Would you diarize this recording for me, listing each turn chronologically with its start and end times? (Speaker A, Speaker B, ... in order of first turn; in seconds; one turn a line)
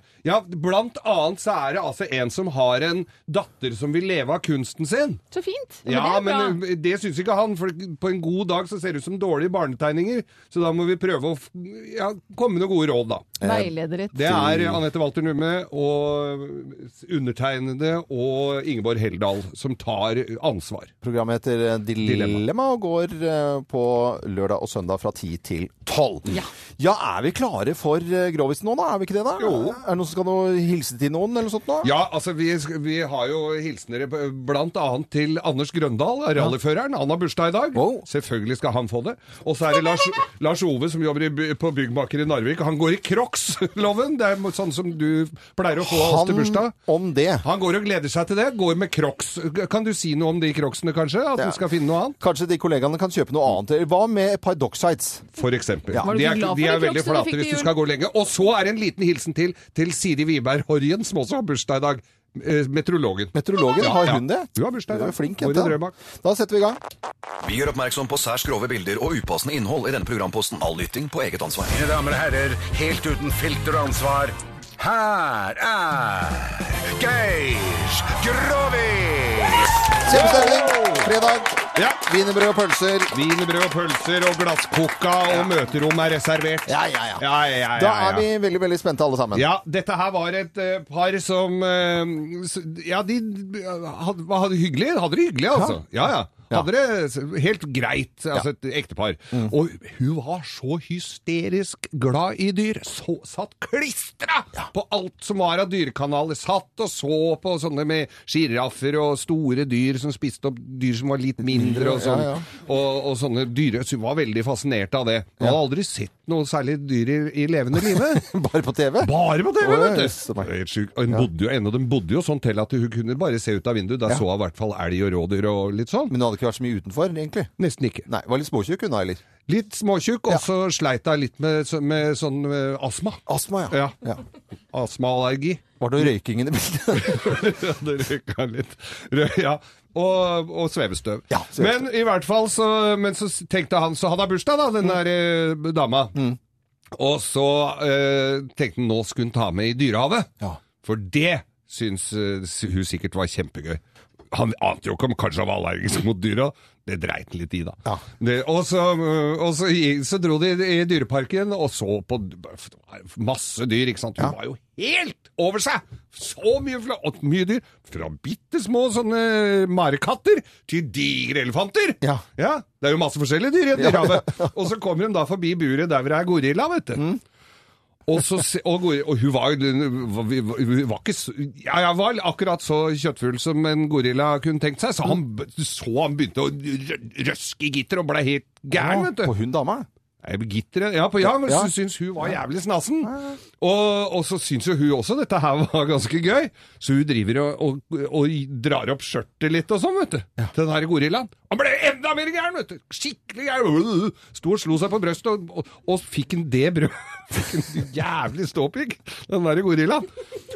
Speaker A: 0.2-5.2
Speaker B: 5.3-6.6
Speaker A: 5.9-13.4
Speaker C: 13.4-14.8
Speaker B: 13.4-14.3
Speaker A: 14.1-20.9
Speaker C: 21.0-31.9
Speaker A: 22.0-22.4
Speaker A: 29.4-29.8
Speaker A: 31.8-46.8
Speaker C: 37.7-38.1
Speaker C: 45.8-47.5
Speaker A: 47.5-52.2
Speaker C: 52.2-55.2
Speaker A: 55.4-66.0
Speaker B: 56.0-57.7
Speaker C: 63.4-66.8
Speaker D: 67.4-71.9
Speaker E: 71.7-79.8
Speaker C: 80.0-83.2
Speaker A: 80.8-81.1
Speaker A: 81.8-82.0
Speaker A: 83.2-86.7
Speaker C: 85.3-85.5
Speaker C: 86.7-89.5
Speaker A: 87.2-88.3
Speaker A: 89.4-118.3
Speaker C: 95.5-95.8
Speaker C: 111.4-112.5
Speaker C: 117.7-120.5
Speaker A: 119.1-126.1
Speaker C: 126.1-127.5
Speaker A: 127.6-128.1
Speaker C: 128.1-129.2
Speaker A: 129.5-134.0
Speaker C: 133.3-134.2
Speaker A: 134.7-135.6
Speaker C: 135.8-137.6
Speaker A: 137.0-146.2
Speaker C: 141.3-141.9
Speaker A: 146.9-150.3
Speaker A: 150.8-177.1
Speaker C: 173.8-174.6
Speaker A: 178.1-189.3
Speaker C: 188.7-189.9
Speaker A: 190.2-210.1
Speaker C: 191.2-191.7